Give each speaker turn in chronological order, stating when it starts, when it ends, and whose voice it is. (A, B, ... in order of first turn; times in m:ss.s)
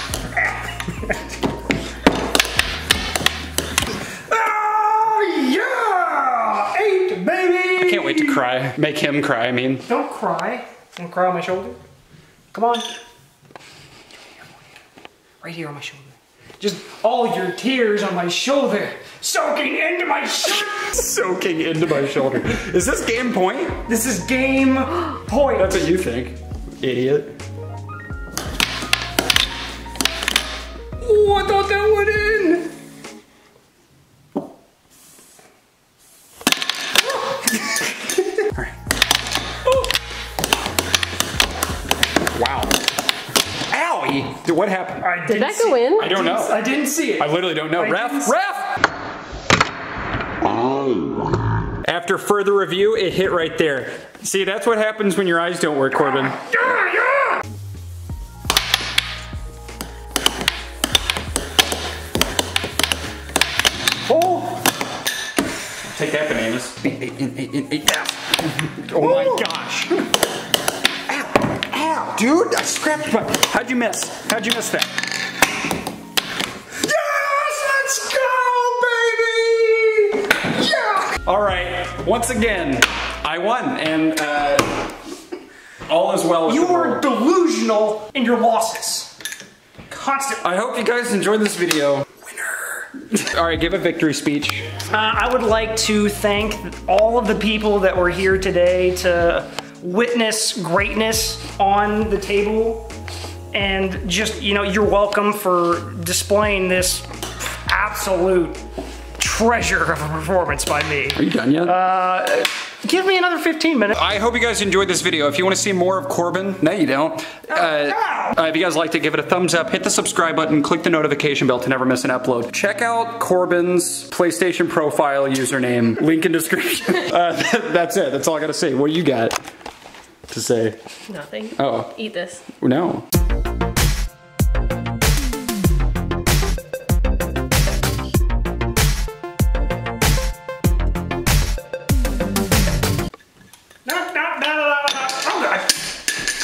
0:00.4-0:01.2 A
0:04.3-0:08.4 A
0:07.8-0:09.9 B
0:09.9-0:11.8 A
0:12.5-0:12.9 A
0:15.4-0:20.8 A
0:20.4-0:23.8 B
0:23.9-0:26.0 A
0:25.6-0:27.3 B
0:31.0-0:32.7 A
0:38.4-0:38.8 B
0:42.4-0:42.8 B
0:43.7-0:45.2 B
0:45.0-0:48.4 A
0:45.3-0:46.1 C
0:46.0-0:46.6 B
0:47.2-0:48.7 B
0:51.8-0:56.4 B
0:56.0-0:57.4 A
1:04.1-1:04.6 A
1:05.8-1:10.0 B
1:09.0-1:09.5 A
1:11.1-1:14.9 B
1:16.8-1:21.1 A
1:21.2-1:24.9 B
1:25.9-1:27.0 B
1:26.5-1:29.2 A
1:29.9-1:30.4 A
1:30.4-1:32.1 B
1:32.3-1:32.8 A
1:33.1-1:34.7 B
1:34.9-1:42.9 A
1:43.5-1:48.6 A
1:49.2-1:54.0 A
1:51.2-1:51.8 B
1:53.9-2:09.4 B
1:57.5-1:58.4 A
2:10.3-2:10.8 B
2:11.1-2:12.4 C
2:11.6-2:11.9 B
2:12.5-2:13.1 B
2:23.8-2:25.8 A